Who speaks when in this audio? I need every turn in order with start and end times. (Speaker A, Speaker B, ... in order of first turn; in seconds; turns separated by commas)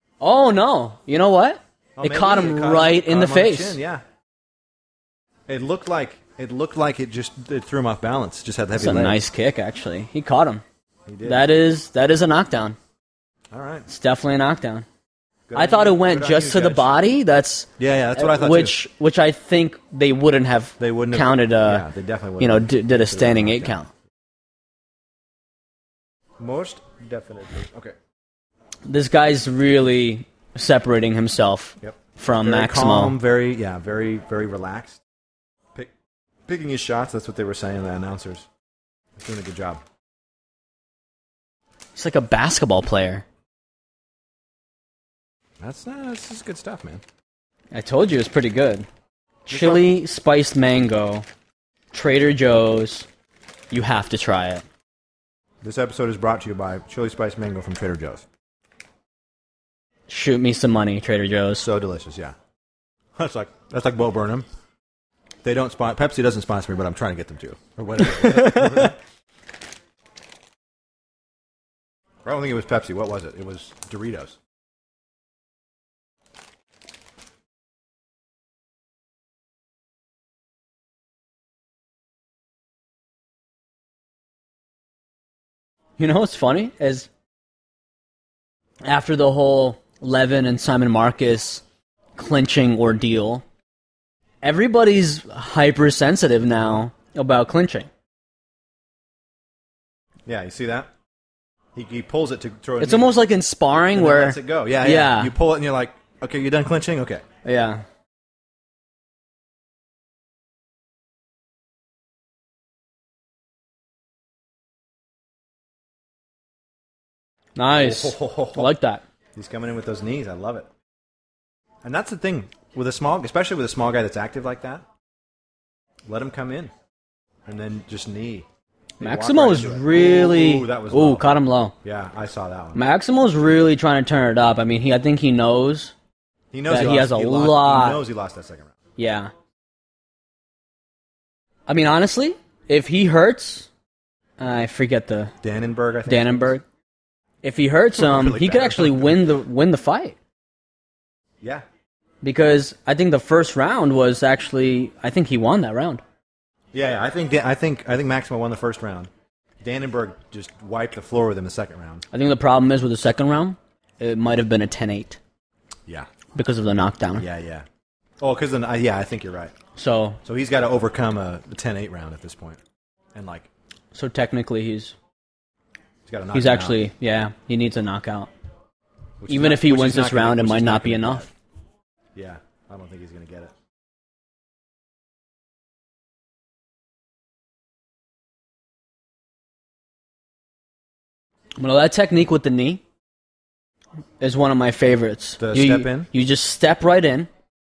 Speaker A: 0.2-3.8, Speaker B: 2.0-4.0, Speaker B: 5.5-9.2, Speaker A: 8.7-10.6, Speaker B: 11.1-11.5, Speaker A: 11.2-12.8, Speaker B: 13.5-13.9, Speaker A: 13.9-14.9, Speaker B: 15.5-17.0, Speaker A: 15.5-21.9, Speaker B: 17.8-18.8, Speaker B: 20.8-23.8, Speaker A: 22.4-23.9, Speaker B: 26.4-28.0, Speaker A: 28.9-33.2, Speaker B: 31.8-35.0, Speaker B: 36.5-38.5, Speaker B: 39.2-39.8, Speaker A: 42.0-43.2, Speaker B: 45.6-47.0, Speaker A: 47.7-48.9, Speaker B: 49.5-49.9, Speaker A: 49.5-51.2, Speaker A: 51.9-53.1, Speaker A: 53.7-54.6, Speaker B: 55.6-58.2, Speaker A: 60.1-61.7, Speaker B: 61.6-62.4, Speaker B: 63.2-64.5, Speaker B: 65.4-69.0, Speaker A: 68.0-68.9, Speaker B: 72.2-74.4, Speaker A: 86.0-87.1, Speaker A: 88.8-91.6, Speaker A: 92.2-93.4, Speaker A: 94.4-97.9, Speaker B: 100.3-100.9, Speaker B: 101.8-103.1, Speaker A: 102.8-105.3, Speaker B: 103.9-107.3, Speaker A: 107.4-107.8, Speaker A: 117.6-119.0, Speaker B: 117.8-118.7, Speaker B: 119.3-120.7, Speaker B: 121.8-124.9, Speaker B: 126.1-126.7, Speaker B: 127.5-128.5, Speaker B: 129.0-131.3, Speaker A: 129.0-131.8, Speaker B: 131.8-132.8, Speaker A: 132.8-135.9, Speaker B: 136.5-138.8, Speaker A: 136.7-138.0, Speaker A: 139.0-139.3, Speaker A: 141.7-143.7, Speaker A: 144.4-145.3, Speaker B: 145.4-146.5, Speaker A: 146.1-146.6, Speaker A: 147.4-150.2, Speaker B: 147.9-149.3, Speaker A: 152.2-156.0, Speaker B: 156.7-159.1, Speaker B: 159.6-162.1, Speaker A: 162.1-165.2, Speaker A: 166.3-167.3, Speaker B: 167.2-167.7, Speaker B: 168.2-169.6, Speaker A: 169.8-170.2, Speaker B: 170.2-172.6, Speaker B: 173.2-173.5, Speaker A: 173.9-175.0, Speaker B: 176.1-176.8, Speaker A: 176.3-178.3, Speaker B: 179.2-181.3, Speaker A: 179.3-181.3, Speaker B: 182.2-183.5, Speaker A: 191.6-192.8, Speaker A: 194.2-197.3, Speaker B: 195.4-196.1